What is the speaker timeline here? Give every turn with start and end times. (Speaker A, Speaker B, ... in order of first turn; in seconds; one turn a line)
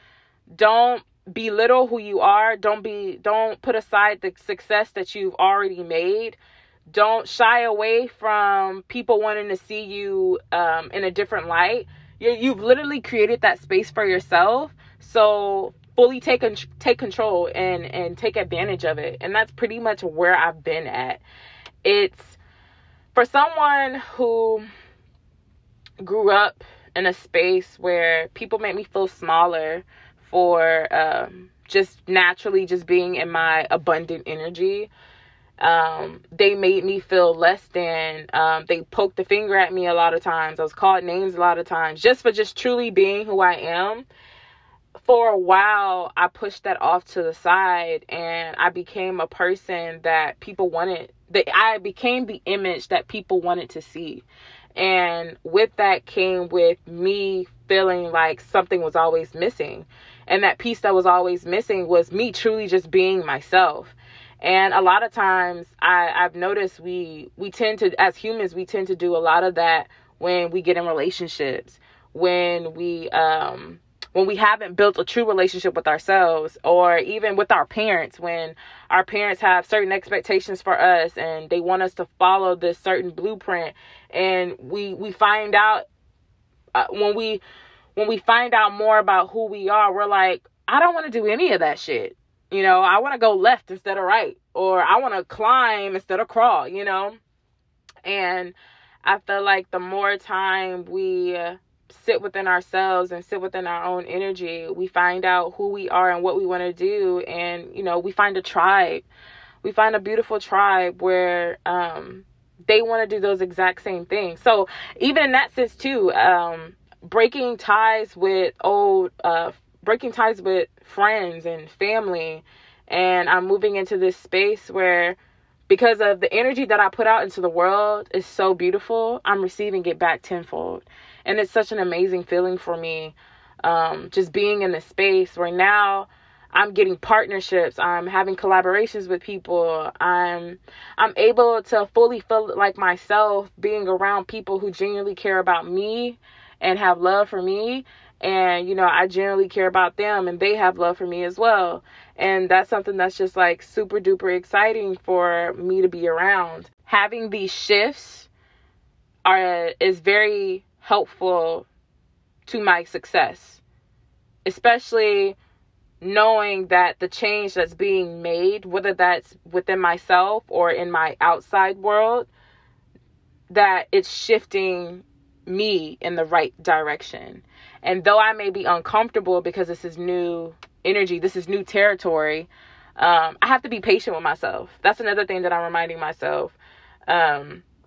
Speaker A: 0.6-21.2
Speaker A: 21.9-22.4
Speaker A: 23.1-24.7
Speaker A: 26.0-34.9
Speaker A: 35.6-44.1
Speaker A: 45.0-54.2
Speaker A: 54.8-85.8
Speaker A: 86.8-87.4
Speaker A: 88.0-97.2
Speaker A: 98.0-109.1
Speaker A: 109.6-125.2
Speaker A: 125.7-158.3
Speaker A: 159.2-161.7
Speaker A: 162.5-163.6
Speaker A: 164.4-165.4
Speaker A: 166.0-172.3
Speaker A: 173.5-186.6
Speaker A: 187.1-187.6